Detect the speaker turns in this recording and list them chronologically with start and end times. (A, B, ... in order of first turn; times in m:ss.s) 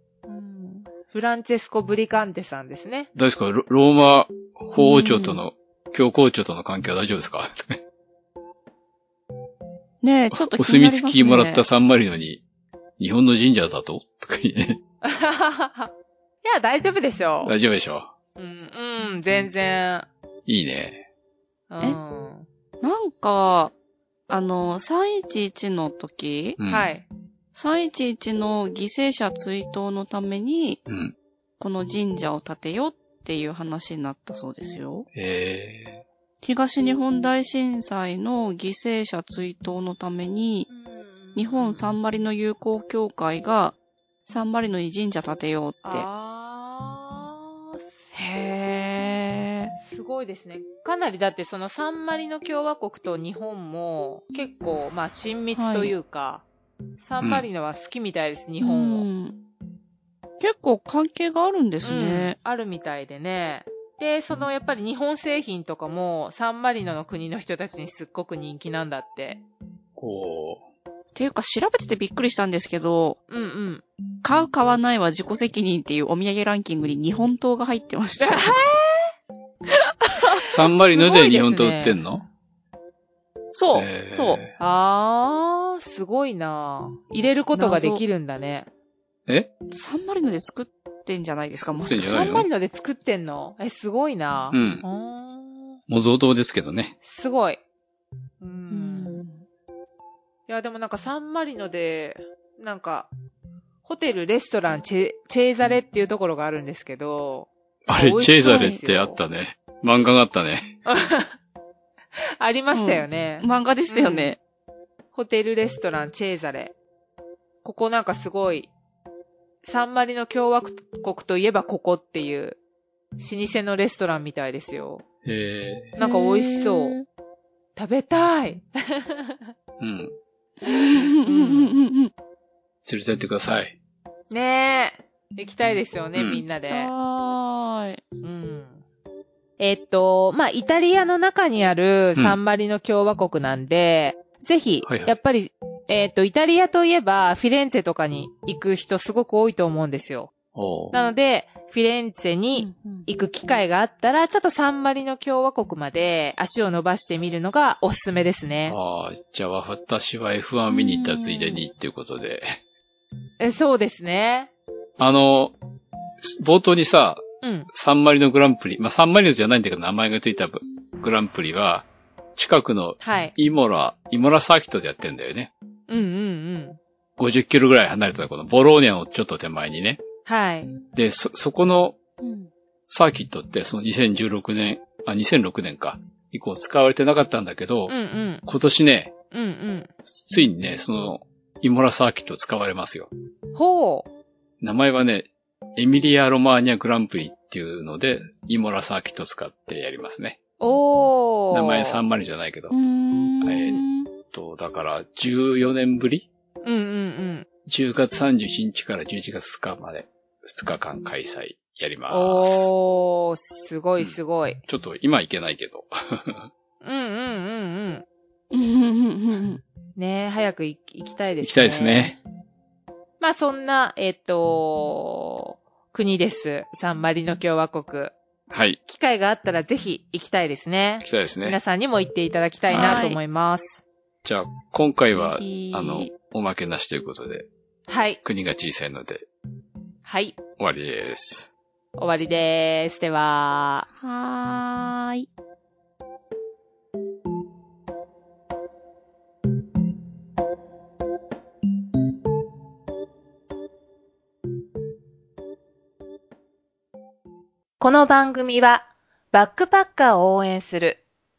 0:00.3-0:03.1 A
0:03.2-0:07.8 B
0:04.8-0:05.4 C
0:10.0-0:11.6 C
0:10.3-0:12.4 B
0:13.0-0:14.8 B
0:15.0-0:15.9 A
0:16.4-0:17.5 A
0:17.4-0:18.1 B
0:18.4-0:20.1 A
0:20.5-0:21.0 B
0:21.7-0:22.5 A
0:22.8-0:23.7 C
0:24.3-0:26.6 C
0:26.6-0:26.9 B
0:26.7-0:27.1 A
0:27.6-0:30.8 C
0:30.9-0:31.2 B
0:31.6-0:35.1 C
0:35.1-0:36.0 B
0:36.4-0:40.7 C
0:40.7-0:41.9 A
0:41.4-0:46.1 C
0:45.9-0:48.1 A
0:48.1-0:49.7 C
0:49.8-0:56.4 A
0:55.5-0:55.9 C
0:57.0-0:59.1 A
0:57.2-0:57.5 B
0:58.6-0:59.4 C
1:00.4-1:02.4 C
1:01.8-1:09.4 A
1:10.0-1:10.6 B
1:11.2-1:13.2 C
1:13.3-1:13.8 A
1:14.2-1:18.6 C
1:18.2-1:19.1 A
1:20.0-1:20.5 C
1:20.5-1:22.2 B
1:20.9-1:22.0 A
1:23.5-1:24.4 C
1:23.7-1:24.5 B
1:24.6-1:28.7 A
1:27.6-1:28.0 C
1:29.7-1:32.4 C
1:31.8-1:32.5 B
1:32.0-1:35.8 A
1:34.5-1:34.8 B
1:35.9-1:37.0 B
1:37.0-1:37.6 A
1:38.4-1:39.2 A
1:38.7-1:39.4 C
1:40.5-1:43.1 A
1:43.8-1:49.2 A
1:47.9-1:50.7 B
1:48.4-1:48.8 C
1:50.9-1:51.4 A
1:52.2-1:54.3 A
1:52.7-1:54.4 C
1:55.1-1:56.8 A
1:57.6-1:58.7 A
1:59.6-2:02.6 A
2:03.2-2:05.0 A
2:05.2-2:06.0 B
2:06.0-2:07.0 A
2:06.0-2:07.1 C
2:07.8-2:09.5 A
2:09.8-2:10.1 B
2:10.6-2:12.1 C
2:11.2-2:11.7 A
2:12.8-2:13.8 B
2:14.3-2:16.9 A
2:16.2-2:16.4 B
2:16.7-2:18.0 C
2:18.2-2:18.8 A
2:19.6-2:30.3 A
2:24.8-2:25.1 B
2:30.6-2:31.0 B
2:30.9-2:38.8 A
2:32.6-2:33.1 C
2:38.7-2:42.6 B
2:40.7-2:41.6 C
2:43.4-2:44.5 A
2:45.0-2:45.6 B
2:46.2-2:55.5 B
2:47.4-2:47.7 A
2:53.0-2:53.3 A
2:55.9-2:56.8 A
2:57.2-3:00.0 B
3:00.3-3:00.8 A
3:00.9-3:02.0 B
3:02.2-3:02.5 C
3:02.9-3:09.1 B
3:07.9-3:08.4 A
3:09.3-3:09.9 A
3:10.0-3:13.1 B
3:13.6-3:14.1 A
3:14.6-3:20.4 B
3:20.6-3:22.0 A
3:21.5-3:22.8 B
3:22.7-3:24.1 C
3:23.4-3:26.3 B
3:26.6-3:27.5 A
3:27.7-3:32.7 B
3:32.1-3:34.6 A
3:34.0-3:36.5 B
3:36.8-3:38.0 A
3:38.5-3:39.6 C
3:40.0-3:42.2 A
3:41.4-3:42.2 B
3:43.2-3:48.2 A
3:48.5-3:48.8 B
3:48.9-3:53.8 A
3:51.0-3:51.6 B
3:52.7-3:53.2 C
3:52.7-3:53.0 B
3:54.2-3:57.5 B
3:55.1-3:56.1 C
3:57.9-3:58.2 A
3:58.2-3:59.3 B
4:00.0-4:00.4 A
4:00.6-4:01.5 B
4:02.0-4:03.9 A
4:04.0-4:05.3 C
4:17.8-4:21.0 A